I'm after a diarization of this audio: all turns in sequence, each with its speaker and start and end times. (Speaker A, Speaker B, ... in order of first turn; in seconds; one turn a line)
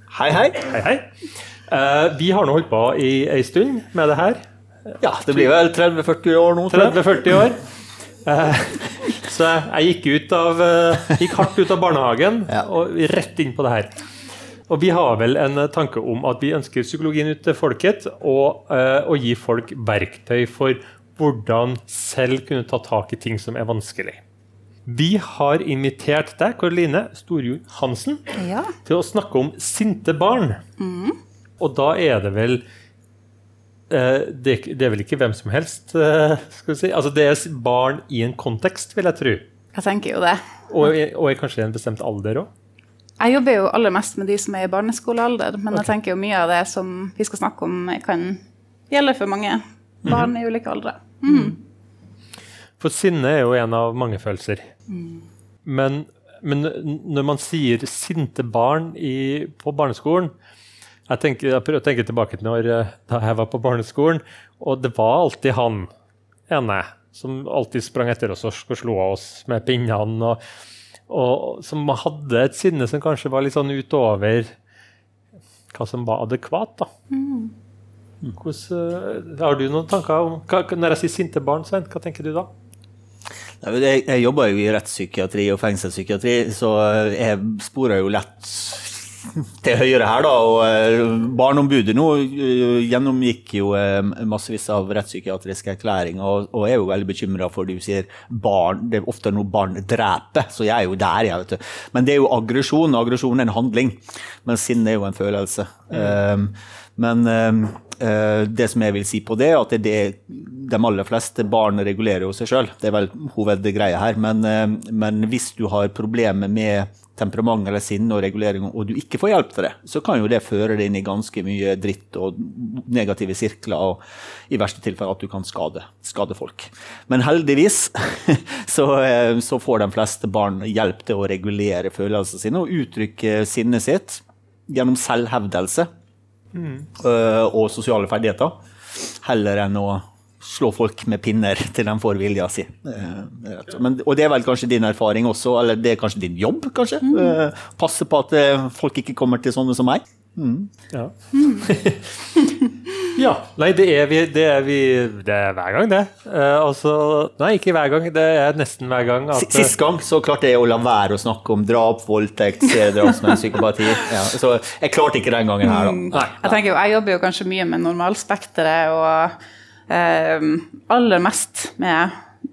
Speaker A: 0.1-0.7
Speaker B: 0.7-1.1
Speaker B: 1.7-4.4
Speaker B: 4.9-5.5
Speaker A: 5.0-7.4
Speaker B: 6.7-7.6
Speaker B: 8.2-13.9
Speaker B: 14.7-24.2
Speaker B: 24.9-28.3
Speaker C: 28.4-28.8
Speaker B: 28.9-30.6
Speaker C: 30.8-31.2
Speaker B: 31.6-32.6
Speaker B: 33.9-39.5
Speaker C: 39.8-40.4
Speaker B: 40.7-42.5
Speaker C: 43.2-51.6
Speaker B: 51.3-51.5
Speaker B: 52.8-54.7
Speaker C: 54.9-55.2
Speaker B: 55.6-60.3
Speaker B: 61.1-65.9
Speaker B: 66.5-70.4
Speaker B: 71.1-74.5
Speaker B: 75.7-76.9
Speaker C: 77.1-77.5
Speaker B: 78.4-82.5
Speaker A: 83.6-135.9
Speaker B: 136.6-136.9
Speaker A: 136.9-150.7
Speaker C: 147.0-147.4
Speaker B: 150.9-152.5
Speaker C: 151.3-151.7
Speaker B: 153.0-159.7
Speaker A: 159.3-166.6
Speaker C: 165.6-169.3
Speaker C: 169.9-172.1